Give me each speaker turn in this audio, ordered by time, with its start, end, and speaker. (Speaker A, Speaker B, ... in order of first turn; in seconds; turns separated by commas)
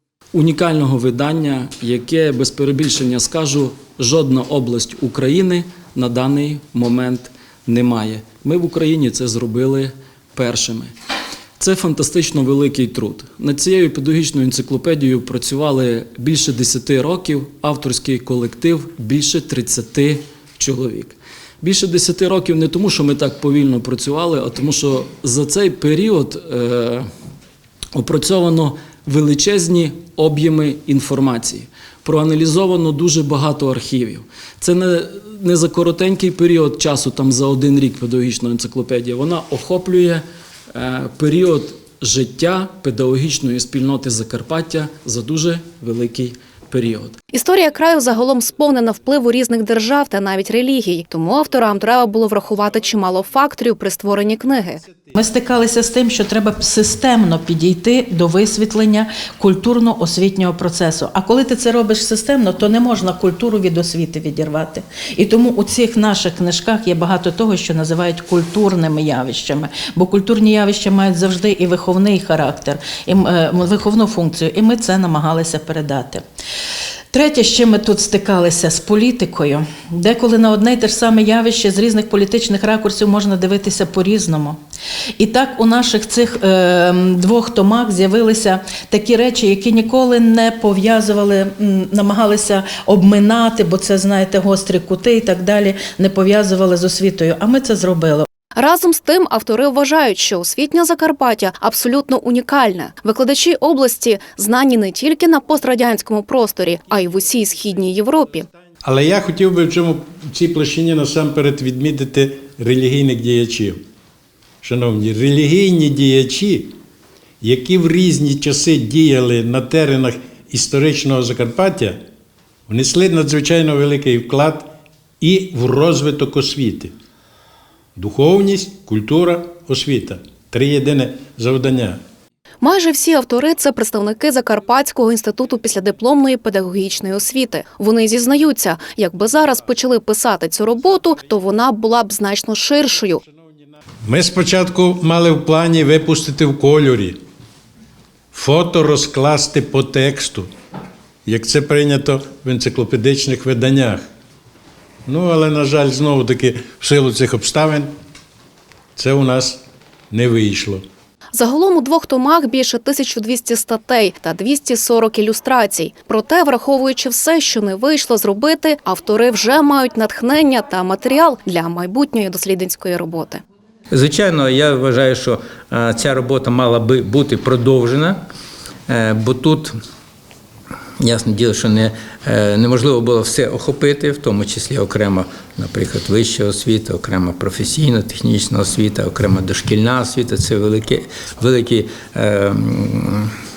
Speaker A: 0.3-10.9, Speaker A: 11.6-27.1, Speaker A: 27.9-47.1, Speaker B: 47.3-54.8, Speaker C: 55.1-76.2, Speaker C: 77.1-84.6, Speaker C: 85.2-98.2, Speaker B: 98.5-108.5, Speaker D: 108.8-113.8, Speaker D: 114.6-116.8, Speaker D: 117.4-122.0, Speaker D: 122.7-126.9, Speaker D: 128.0-132.0, Speaker B: 132.6-143.2, Speaker D: 144.0-147.2, Speaker D: 148.3-150.5, Speaker D: 151.2-154.1, Speaker D: 155.1-157.9, Speaker D: 158.9-160.8, Speaker B: 161.3-173.4, Speaker E: 173.9-178.2, Speaker E: 178.9-179.7, Speaker E: 181.0-193.3